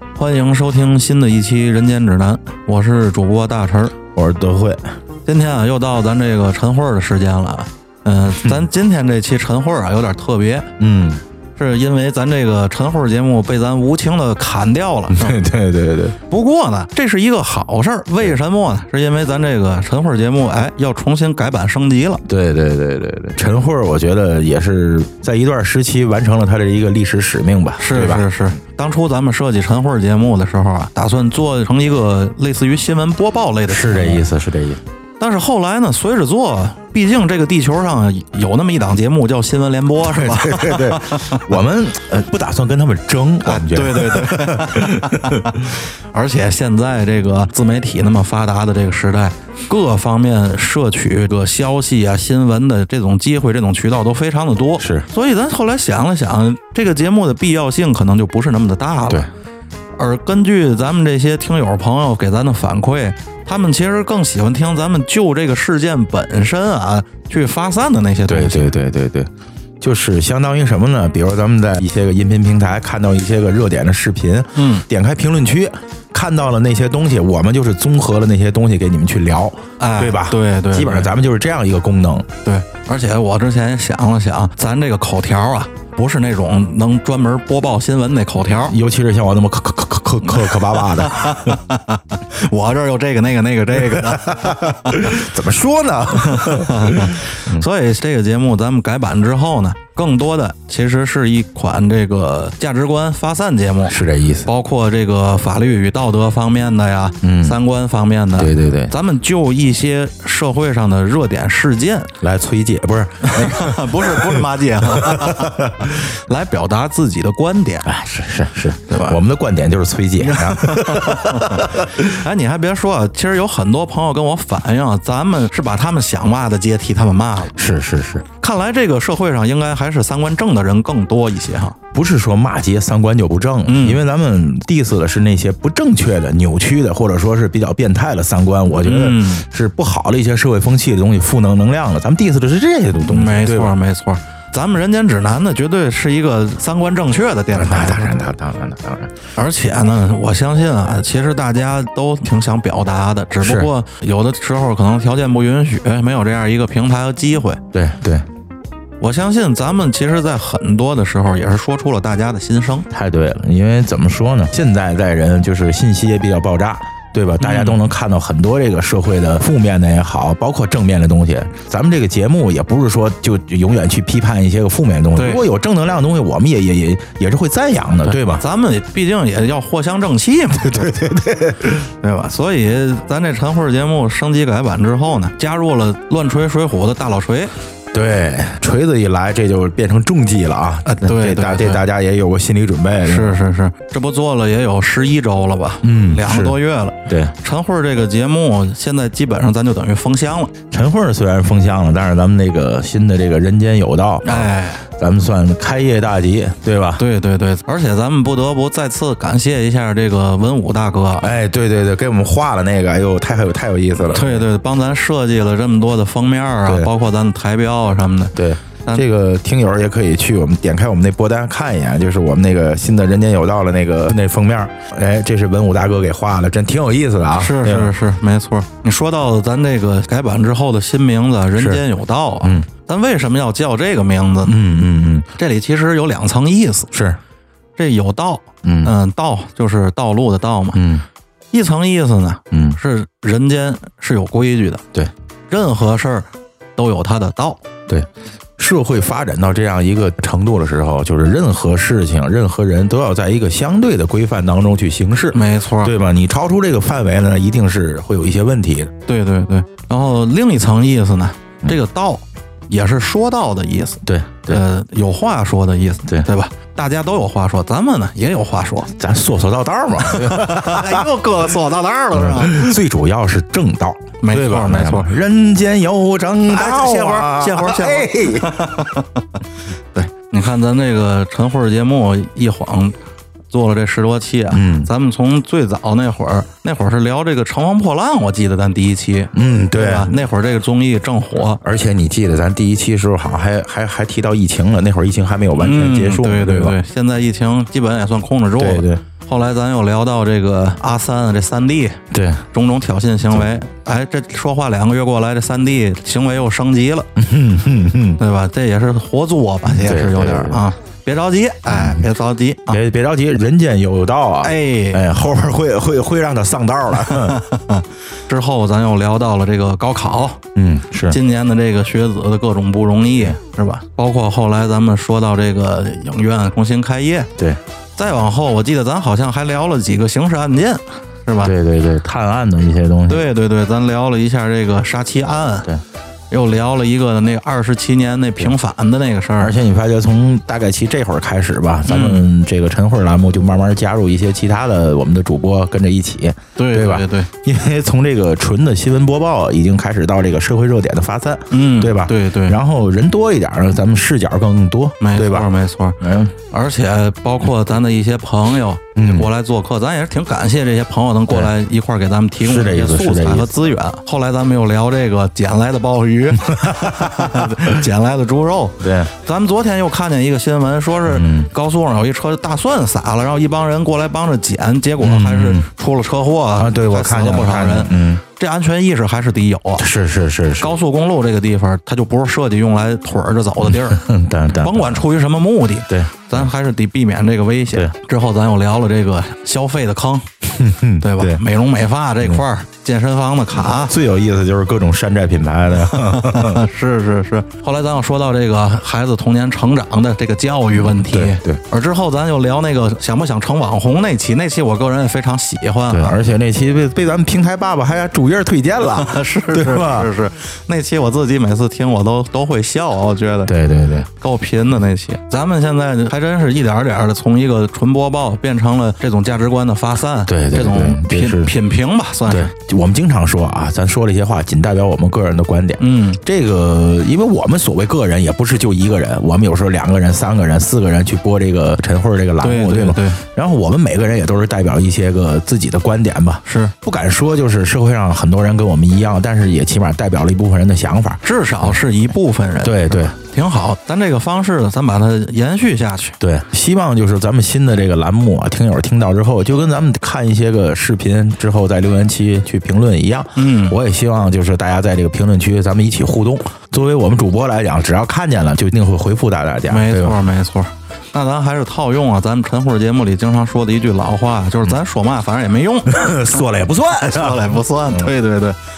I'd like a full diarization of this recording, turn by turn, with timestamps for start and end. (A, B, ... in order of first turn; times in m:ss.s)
0:00.1-0:04.0 A
0:04.1-0:04.8 B
0:05.2-0:10.7 A
0:08.3-0:08.7 B
0:10.8-0:11.2 B
0:11.6-0:15.4 A
0:15.1-0:16.2 B
0:16.2-0:22.2 A
0:22.3-0:28.2 B
0:27.8-0:34.2 A
0:33.7-0:34.8 B
0:35.2-0:41.5 A
0:40.0-0:45.5 B
0:43.4-0:59.3 A
0:54.8-0:55.1 B
1:00.0-1:08.7 A
1:08.3-1:22.3 B
1:14.5-1:14.8 A
1:19.8-1:21.1 A
1:22.4-1:28.8 A
1:28.6-1:31.6 B
1:30.3-1:35.2 A
1:34.0-1:37.7 B
1:36.2-1:52.1 A
1:43.8-1:44.5 B
1:47.2-1:47.6 B
1:48.4-1:48.9 B
1:52.2-1:56.0 B
1:53.2-1:58.0 A
1:57.8-2:02.2 B
1:58.9-1:59.2 A
2:00.2-2:07.6 A
2:07.5-2:08.2 B
2:08.3-2:11.8 A
2:11.9-2:23.8 B
2:13.6-2:14.0 A
2:18.8-2:19.4 A
2:23.0-2:28.1 A
2:27.5-2:29.1 B
2:29.3-2:37.6 A
2:33.4-2:33.7 B
2:37.7-2:38.2 B
2:39.0-2:42.9 A
2:42.9-2:58.4 B
2:47.4-2:47.8 A
2:55.1-2:55.4 A
2:58.1-3:00.9 A
3:00.5-3:01.9 B
3:01.8-3:07.5 A
3:07.9-3:13.4 B
3:10.8-3:11.8 A
3:13.0-3:20.5 A
3:15.8-3:17.3 B
3:20.7-3:27.0 B
3:24.2-3:24.8 A
3:27.0-3:31.3 A
3:31.2-3:34.5 B
3:34.1-3:39.0 A
3:36.6-3:36.9 B
3:38.3-3:47.9 B
3:47.3-3:54.6 A
3:51.5-3:51.8 B
3:54.4-3:55.3 B
3:55.3-3:56.9 A
3:56.9-3:57.2 B
3:57.8-4:00.9 A
3:58.6-3:58.9 B
4:00.7-4:01.0 B
4:01.5-4:04.8 A
4:02.5-4:02.8 B
4:05.5-4:07.6 A
4:08.6-4:18.9 B
4:15.3-4:15.9 A
4:19.0-4:28.9 A
4:24.0-4:24.6 B
4:29.0-4:31.1 B
4:30.0-4:32.8 A
4:32.1-4:38.6 B
4:34.2-4:35.1 A
4:36.5-4:39.2 A
4:39.9-4:43.0 A
4:43.5-4:51.6 A
4:44.5-4:44.9 B
4:49.3-4:50.1 B
4:51.6-4:56.8 B
4:55.6-5:02.0 A
4:58.6-4:59.0 B
5:02.1-5:02.4 B
5:02.5-5:07.1 A
5:07.2-5:08.2 B
5:08.2-5:12.8 A
5:09.7-5:10.6 B
5:11.7-5:12.0 B
5:12.7-5:17.4 B
5:14.4-5:15.0 A
5:17.0-5:20.4 A
5:20.5-5:21.2 B
5:21.1-5:27.3 A
5:28.0-5:31.5 A
5:31.4-5:33.3 B
5:33.1-5:35.7 A
5:36.3-5:39.6 A
5:39.4-5:55.5 B
5:41.8-5:42.3 A
5:46.6-5:47.3 A
5:51.5-5:52.6 A
5:55.0-6:19.9 A
5:56.0-5:56.3 B
5:59.0-5:59.3 B
6:02.4-6:03.5 B
6:06.5-6:07.7 B
6:08.8-6:09.1 B
6:11.1-6:11.5 B
6:15.0-6:15.7 B
6:16.6-6:18.2 B
6:19.8-6:20.8 B
6:20.6-6:30.3 A
6:23.6-6:25.0 B
6:25.9-6:26.5 B
6:30.5-6:31.4 B
6:31.0-6:34.0 A
6:33.5-6:36.6 B
6:35.7-6:46.1 A
6:40.7-6:41.6 B
6:45.9-6:50.1 B
6:48.8-6:53.5 A
6:53.5-6:54.1 B
6:54.1-7:02.5 A
7:00.3-7:01.5 B
7:02.3-7:21.7 B
7:05.8-7:06.2 A
7:12.4-7:13.2 A
7:16.4-7:16.7 A
7:21.2-7:26.2 A
7:22.6-7:23.2 B
7:26.2-7:40.2 B
7:33.4-7:33.8 A
7:39.7-7:46.3 A
7:45.8-7:48.1 B
7:46.9-7:48.6 A